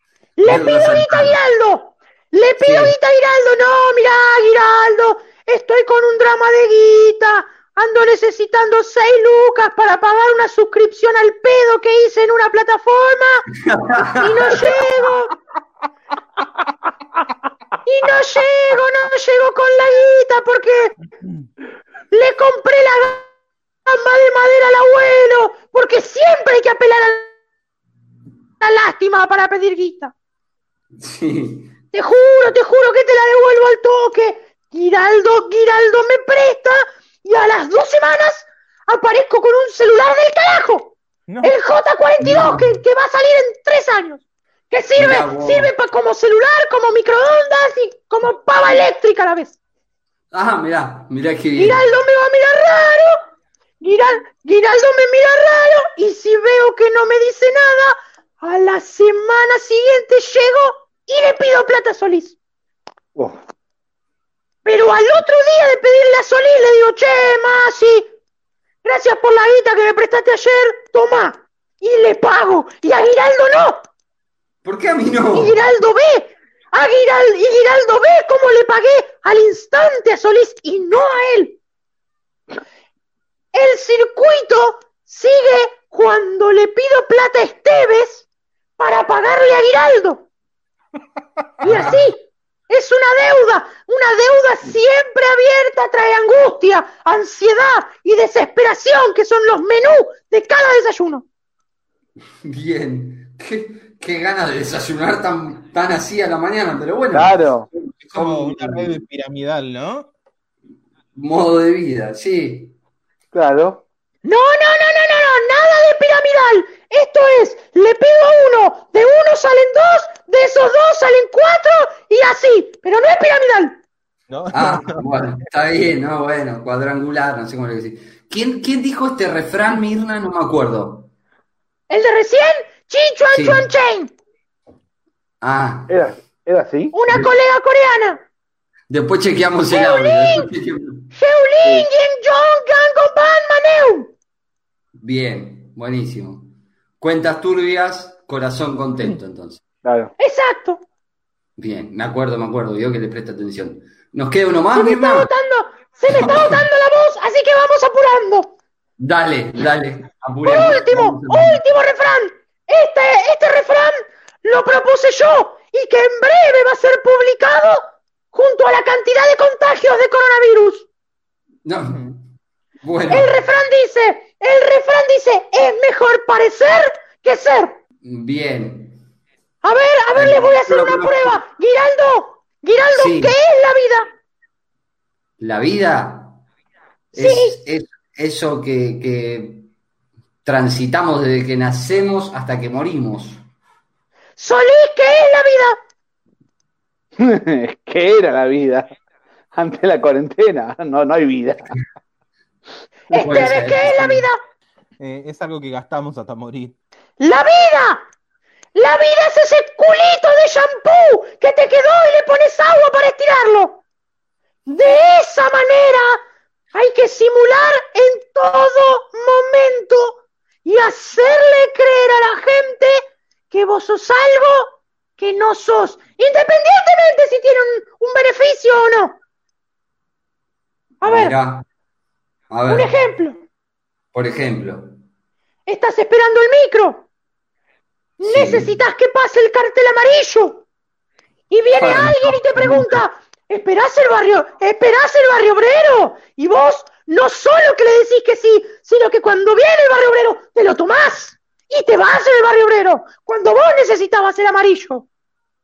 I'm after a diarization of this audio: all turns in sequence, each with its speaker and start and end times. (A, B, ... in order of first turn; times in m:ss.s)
0:00.4-0:13.4 A
0:00.4-0:01.4 B
0:02.6-0:02.9 B
0:13.6-0:14.7 B
0:14.2-0:15.3 A
0:17.8-0:20.9 A
0:22.1-0:23.2 A
0:23.8-0:27.3 A
0:28.6-0:30.1 A
0:31.0-0:31.7 B
0:31.9-0:49.6 A
0:41.3-0:41.5 C
0:42.2-0:42.7 B
0:45.0-0:45.7 B
0:50.3-0:51.8 B
0:51.6-0:53.2 A
0:53.8-1:02.4 A
1:04.6-1:08.1 A
1:08.8-1:13.8 A
1:14.6-1:15.6 B
1:15.3-1:21.6 A
1:23.5-1:28.3 A
1:28.8-1:30.2 A
1:31.6-1:32.0 B
1:31.6-1:41.2 A
1:42.4-1:49.0 B
1:47.1-1:47.7 D
1:48.1-1:50.1 C
1:51.1-1:52.7 B
1:53.3-1:53.8 D
1:54.2-2:03.8 A
2:04.3-2:05.0 C
2:04.5-2:11.1 B
2:11.9-2:14.1 A
2:13.3-2:13.6 B
2:15.4-2:16.0 B
2:15.9-2:16.9 D
2:16.9-2:18.2 A
2:18.9-2:21.1 B
2:19.7-2:20.5 A
2:21.1-2:24.1 A
2:25.0-2:29.6 B
2:29.8-2:30.1 D
2:30.2-2:30.8 A
2:31.6-2:35.3 B
2:34.7-2:38.5 A
2:36.1-2:36.6 B
2:39.0-2:41.6 B
2:40.4-2:47.8 A
2:48.3-2:50.9 A
2:51.6-2:52.2 B
2:52.8-2:53.3 B
2:53.1-2:57.7 A
2:58.0-2:59.0 B
2:59.6-3:04.1 A
3:00.1-3:01.4 B
3:02.9-3:03.3 B
3:05.4-3:06.4 B
3:07.1-3:09.7 B
3:07.1-3:07.6 A
3:10.4-3:13.4 B
3:14.4-3:15.8 A
3:17.2-3:18.9 D
3:19.5-3:21.7 D
3:23.1-3:24.4 A
3:23.1-3:24.3 B
3:25.0-3:26.8 C
3:27.2-3:28.0 A
3:28.7-3:33.8 A
3:34.6-3:36.2 A
3:36.7-3:49.2 A
3:51.0-3:51.3 A
3:51.0-3:51.6 B
3:52.5-3:52.9 B
3:52.7-3:53.4 A
3:54.1-3:55.0 B
3:55.7-3:57.0 A
3:58.2-4:00.6 A
3:58.2-3:58.7 B
4:01.5-4:15.0 A
4:01.7-4:03.0 B